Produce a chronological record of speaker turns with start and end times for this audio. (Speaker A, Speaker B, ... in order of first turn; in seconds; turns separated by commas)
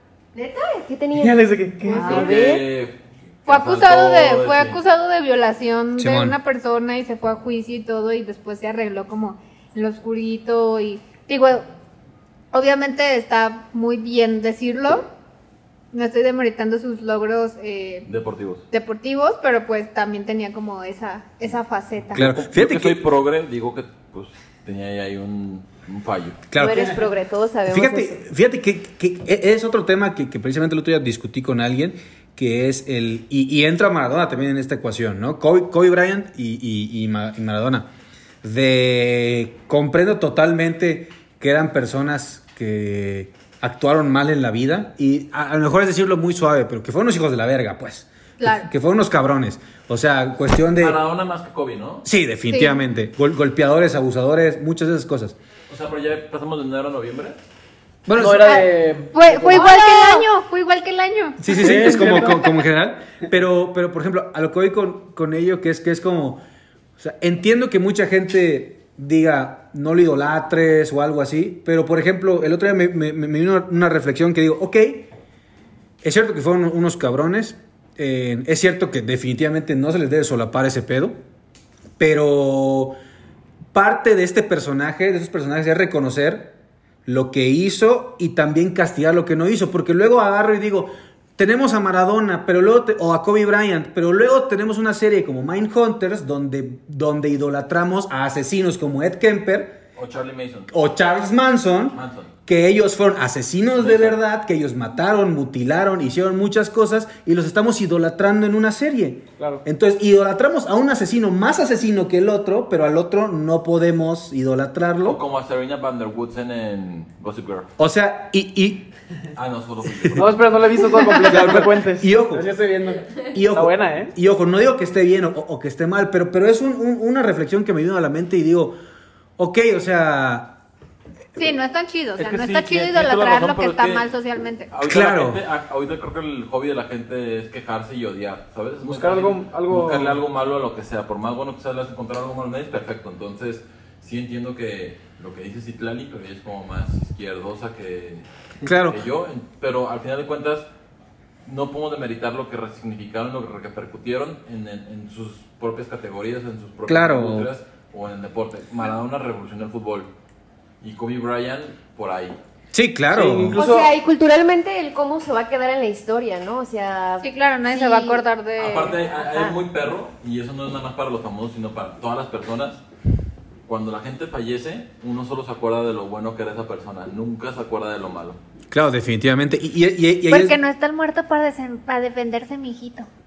Speaker A: 0.3-1.4, Speaker B: 1.1-2.5, Speaker C: 1.9-2.6, Speaker D: 2.0-4.8, Speaker C: 3.5-11.7, Speaker E: 6.0-6.4, Speaker C: 12.5-15.1, Speaker C: 15.9-18.1, Speaker D: 18.1-18.6, Speaker C: 18.7-22.2, Speaker D: 22.1-26.4, Speaker E: 22.1-23.0, Speaker E: 26.5-27.0, Speaker A: 26.6-28.2, Speaker E: 27.7-37.9, Speaker E: 38.4-51.0, Speaker C: 48.4-48.7, Speaker D: 50.8-52.1, Speaker E: 52.0-55.4, Speaker C: 52.5-52.8, Speaker D: 55.7-57.4, Speaker E: 58.1-58.7, Speaker B: 58.1-59.7, Speaker C: 58.5-62.2, Speaker A: 59.5-60.3, Speaker E: 61.4-66.4, Speaker B: 61.5-62.5, Speaker E: 67.0-75.1, Speaker E: 76.0-81.2, Speaker E: 82.0-83.0, Speaker E: 83.7-86.5, Speaker E: 87.1-99.8, Speaker D: 100.0-100.7, Speaker E: 100.7-115.2, Speaker D: 101.9-102.3, Speaker D: 103.8-104.2, Speaker D: 115.0-117.7, Speaker E: 117.8-118.9, Speaker D: 119.3-120.5, Speaker B: 120.2-124.1, Speaker E: 121.3-122.5, Speaker E: 123.3-128.8, Speaker E: 129.4-130.6, Speaker C: 131.4-134.7, Speaker D: 132.2-134.1, Speaker D: 134.7-148.3, Speaker E: 134.8-135.4, Speaker B: 138.8-140.2, Speaker E: 148.7-149.0, Speaker D: 148.9-150.7, Speaker D: 151.4-160.1, Speaker E: 156.9-157.5, Speaker D: 160.8-162.4, Speaker E: 162.7-163.6, Speaker B: 163.1-163.9, Speaker A: 163.6-168.2, Speaker C: 167.2-169.0, Speaker D: 168.6-172.8, Speaker A: 169.3-169.6, Speaker D: 173.7-178.4, Speaker E: 178.7-180.6, Speaker C: 180.3-183.1